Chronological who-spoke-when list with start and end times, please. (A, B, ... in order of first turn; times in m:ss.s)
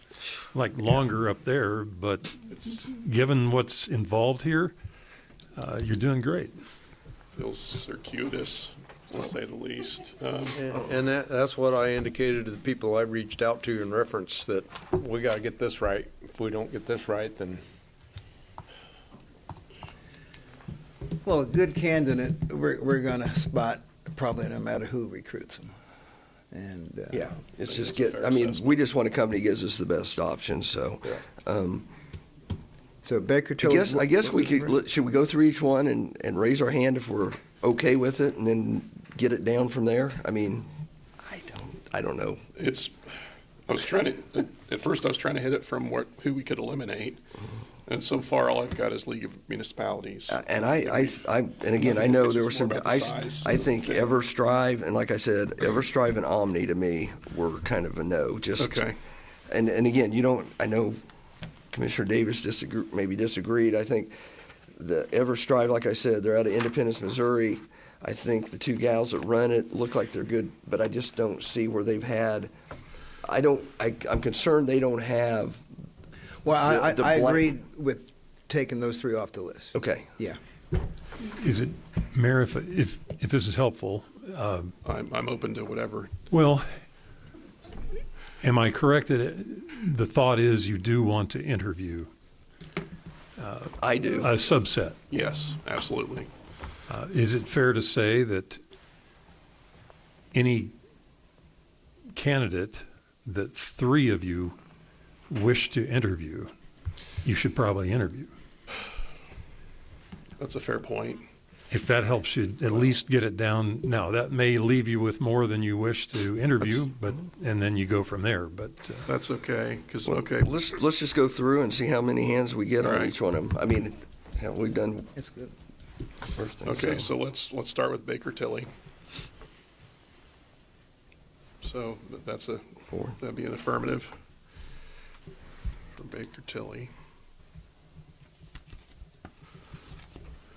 0:00.5-0:04.7 A
0:05.6-0:06.5 A
0:07.3-0:10.7 B
0:10.5-0:17.6 C
0:21.2-0:25.7 D
0:26.5-0:27.2 D
0:27.1-0:31.9 E
0:27.6-0:28.8 B
0:33.0-0:34.8 D
0:33.6-0:40.7 E
0:41.3-0:42.4 E
0:42.5-0:43.0 B
0:43.7-0:47.2 B
0:47.8-0:51.2 B
0:50.3-0:58.9 E
0:51.7-0:54.1 B
0:58.6-0:59.0 B
0:59.5-1:01.0 E
1:01.7-1:04.1 E
1:04.7-1:12.5 E
1:13.2-1:15.6 E
1:16.4-1:20.4 D
1:16.6-1:17.5 E
1:19.7-1:20.1 E
1:21.2-1:24.7 A
1:24.8-1:26.2 B
1:26.3-1:26.6 A
1:28.4-1:32.1 A
1:33.4-1:35.0 A
1:33.8-1:34.4 E
1:35.1-1:36.3 B
1:36.9-1:38.6 A
1:40.3-1:40.7 A
1:42.1-1:44.6 A
1:45.3-1:46.5 A
1:47.2-1:48.3 A
1:50.4-1:51.2 B
1:51.7-1:59.1 A
1:59.1-2:00.5 B
2:00.1-2:05.1 E
2:02.8-2:03.1 B
2:05.1-2:05.5 D
2:06.3-2:07.1 E
2:06.6-2:08.7 B
2:11.6-2:14.1 B
2:12.9-2:13.1 E
2:15.9-2:16.9 B